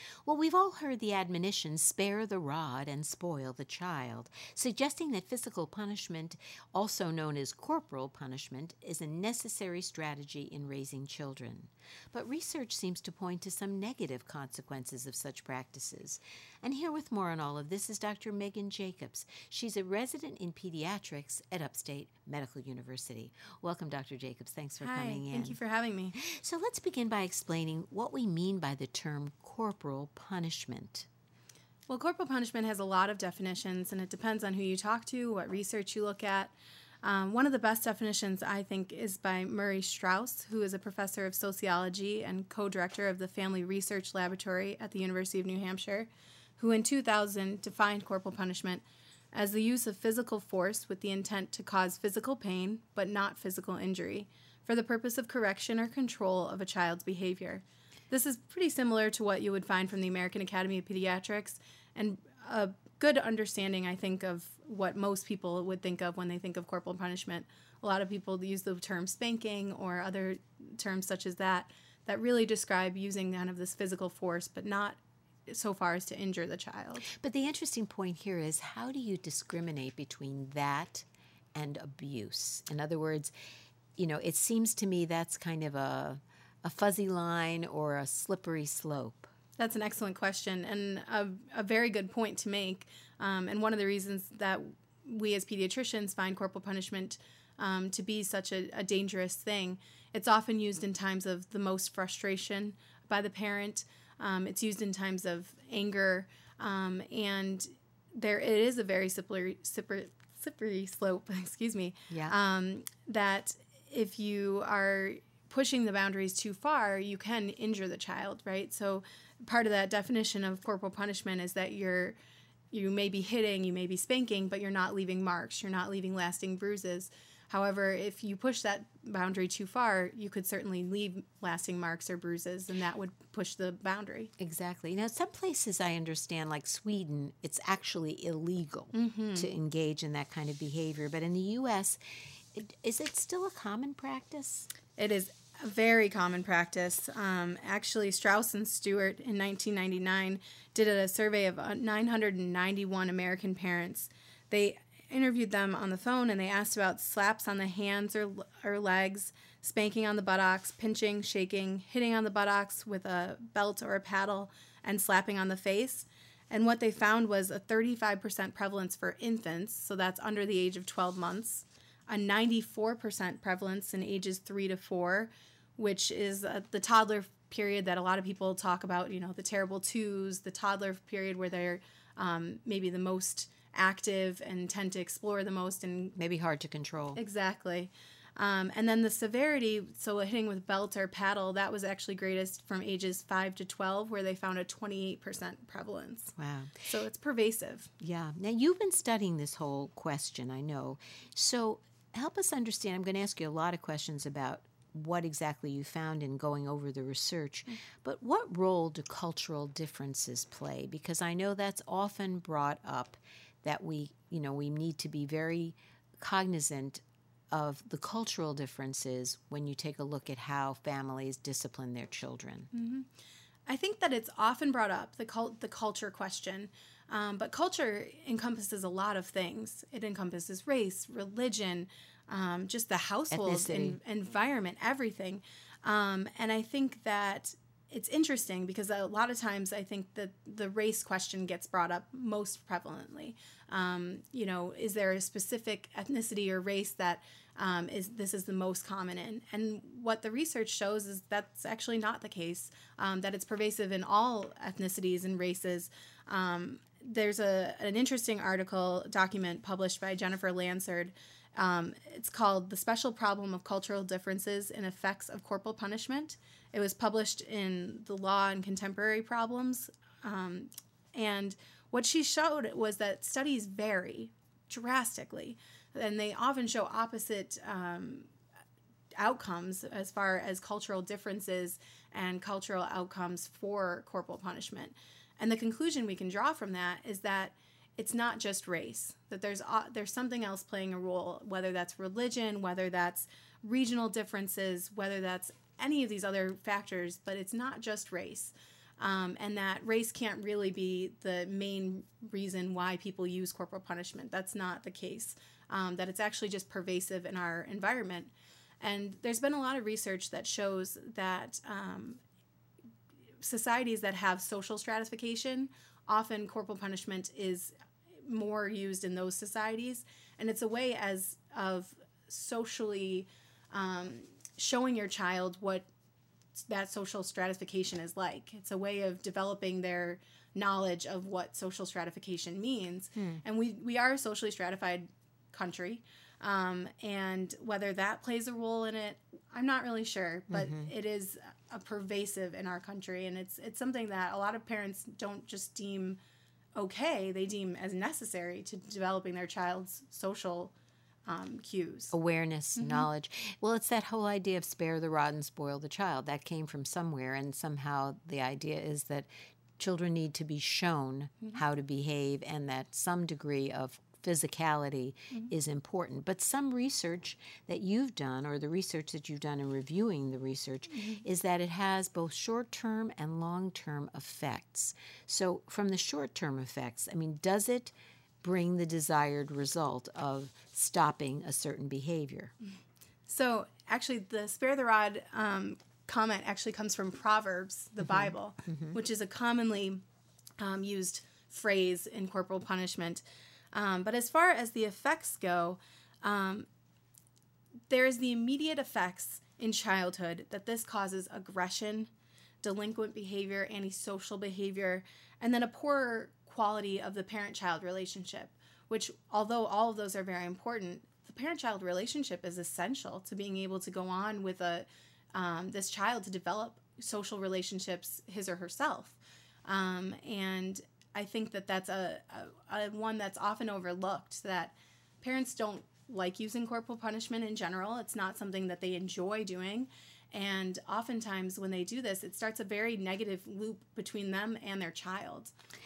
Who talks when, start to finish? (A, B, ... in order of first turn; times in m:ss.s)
0:00.2-0:25.6 A
0:24.8-0:26.2 B
0:26.1-0:31.1 A
0:31.9-1:17.1 B
1:17.1-1:23.3 A
1:24.0-1:29.3 A
1:29.6-2:02.2 B
2:02.7-2:14.3 B
2:14.4-2:22.0 A
2:18.9-2:19.5 B
2:22.5-2:24.7 A
2:25.0-3:06.2 B
3:06.1-3:07.2 A
3:07.2-3:17.9 B
3:16.4-3:16.8 A
3:18.0-3:42.7 A
3:42.7-3:43.1 B
3:43.6-4:38.3 B
3:53.3-3:54.0 A
4:39.2-5:12.2 B
5:13.4-5:25.9 B
5:26.6-5:46.2 B
5:33.1-5:33.4 A
5:40.5-5:40.9 A
5:46.8-5:50.7 B
5:51.2-5:52.1 B
5:52.1-6:22.5 A
5:52.8-5:53.1 B
6:23.3-6:30.0 B
6:28.0-6:28.9 A
6:30.6-6:36.7 B
6:37.9-6:42.1 B
6:42.6-7:15.5 B